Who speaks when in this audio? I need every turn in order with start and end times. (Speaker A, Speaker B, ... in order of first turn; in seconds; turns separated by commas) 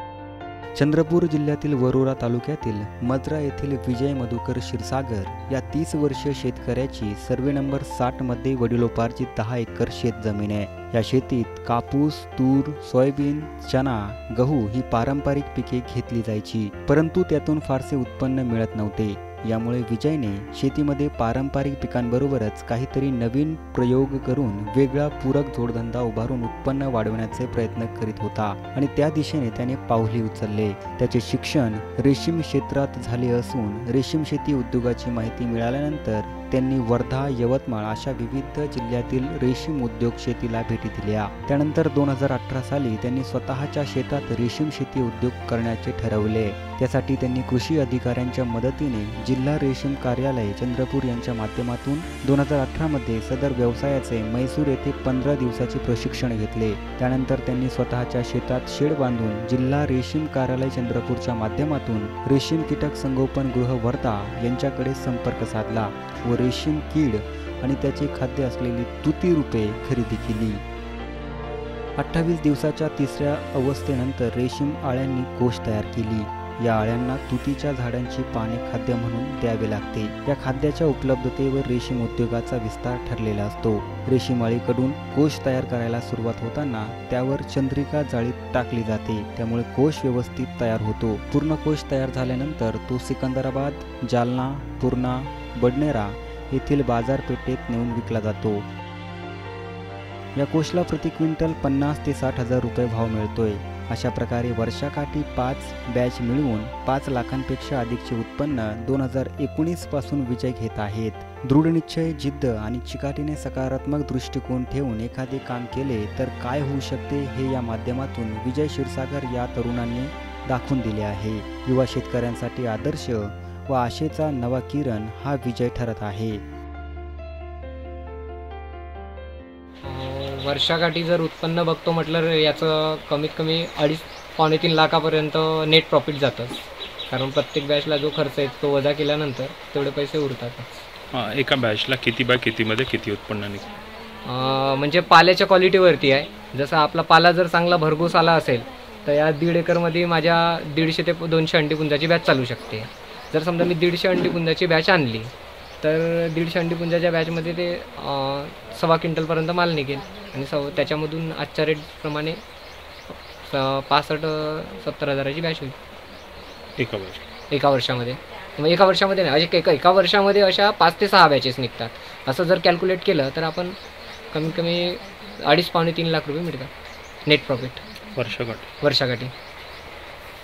Speaker A: 0.8-70.6, Speaker A: 72.0-98.7, Speaker A: 100.3-126.4, Speaker B: 129.8-140.7, Speaker C: 141.1-143.8, Speaker B: 144.2-162.4, Speaker B: 163.1-165.8, Speaker C: 166.8-167.2, Speaker B: 167.5-173.8, Speaker B: 174.3-176.7, Speaker B: 177.2-177.8, Speaker C: 178.2-178.7, Speaker B: 178.8-179.3